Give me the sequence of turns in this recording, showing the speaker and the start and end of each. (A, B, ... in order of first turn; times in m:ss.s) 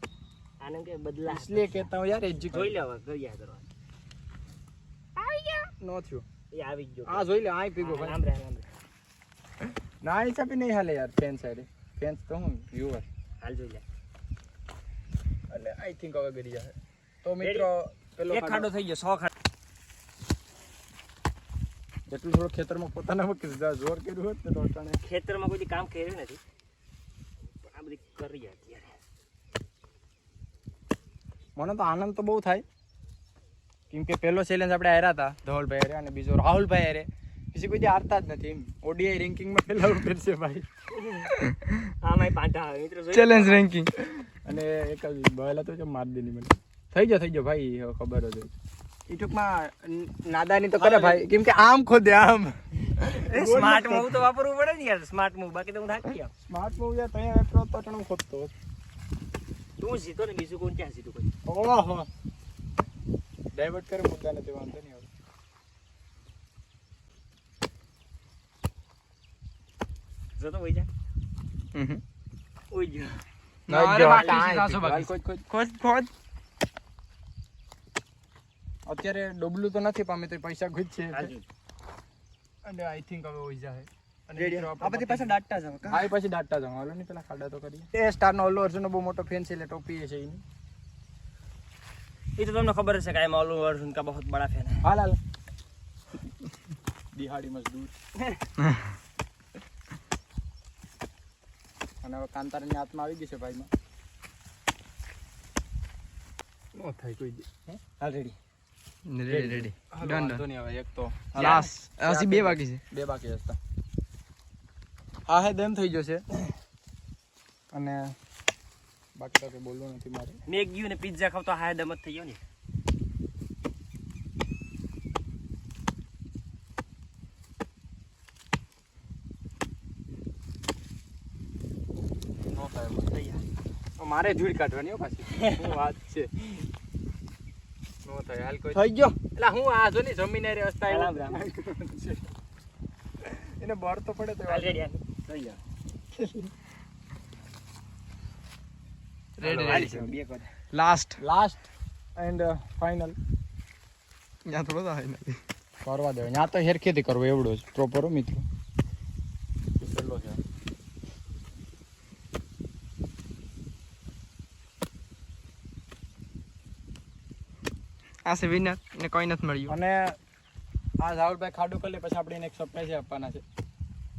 0:00.6-0:01.9 A
0:01.3-0:02.8 B
0:02.5-0:03.7 A
0:05.2-0:05.7 A
0:05.8-0:06.2 B
0:06.5-0:08.7 A
0:07.0-0:08.2 B
0:10.0-0:13.0 B
0:13.4-0:13.8 A
0:15.5-0:18.7 B
0:17.4-0:17.7 A
0:18.3-0:19.3 A
0:22.1-0:25.0 B
0:25.0-0:26.4 A
0:27.6-0:28.9 A
0:31.6-0:32.6 B
0:33.9-0:40.6 B
0:40.9-0:41.4 A
0:42.0-0:43.7 A
0:43.1-0:43.9 C
0:44.4-0:48.5 B
0:49.1-0:54.1 B
0:50.8-0:51.2 A
0:53.3-0:56.3 A
0:56.5-0:58.5 B
0:59.8-1:01.3 A
1:01.4-1:02.1 B
1:03.5-1:05.1 B
1:10.4-1:10.9 A
1:11.7-1:12.0 C
1:12.7-1:13.2 A
1:13.7-1:16.1 C
1:13.7-1:15.5 B
1:14.0-1:14.5 A
1:18.9-1:21.3 B
1:21.1-1:21.4 A
1:22.6-1:30.4 B
1:24.4-1:26.1 A
1:32.4-1:34.8 A
1:34.8-1:35.2 B
1:37.1-1:38.0 B
1:42.0-1:43.7 B
1:46.8-1:47.8 B
1:48.0-1:48.4 A
1:49.1-1:50.4 C
1:49.3-1:53.6 B
1:51.4-1:52.8 C
1:51.4-1:51.7 A
1:55.3-1:56.3 B
1:57.7-1:58.1 B
1:59.2-2:00.4 B
2:00.5-2:02.4 A
2:12.5-2:13.1 B
2:13.1-2:13.4 A
2:14.0-2:16.6 B
2:15.3-2:15.7 A
2:18.0-2:22.3 B
2:18.7-2:19.2 A
2:20.9-2:21.4 A
2:23.2-2:24.8 B
2:24.5-2:25.6 A
2:26.2-2:26.5 B
2:29.4-2:30.0 C
2:29.4-2:30.1 B
2:29.6-2:30.5 A
2:30.7-2:31.2 C
2:31.2-2:31.6 B
2:32.2-2:33.2 B
2:34.5-2:35.4 C
2:35.8-2:38.4 B
2:39.8-2:40.4 B
2:48.2-2:49.7 C
2:49.7-2:50.2 B
2:51.0-2:53.4 B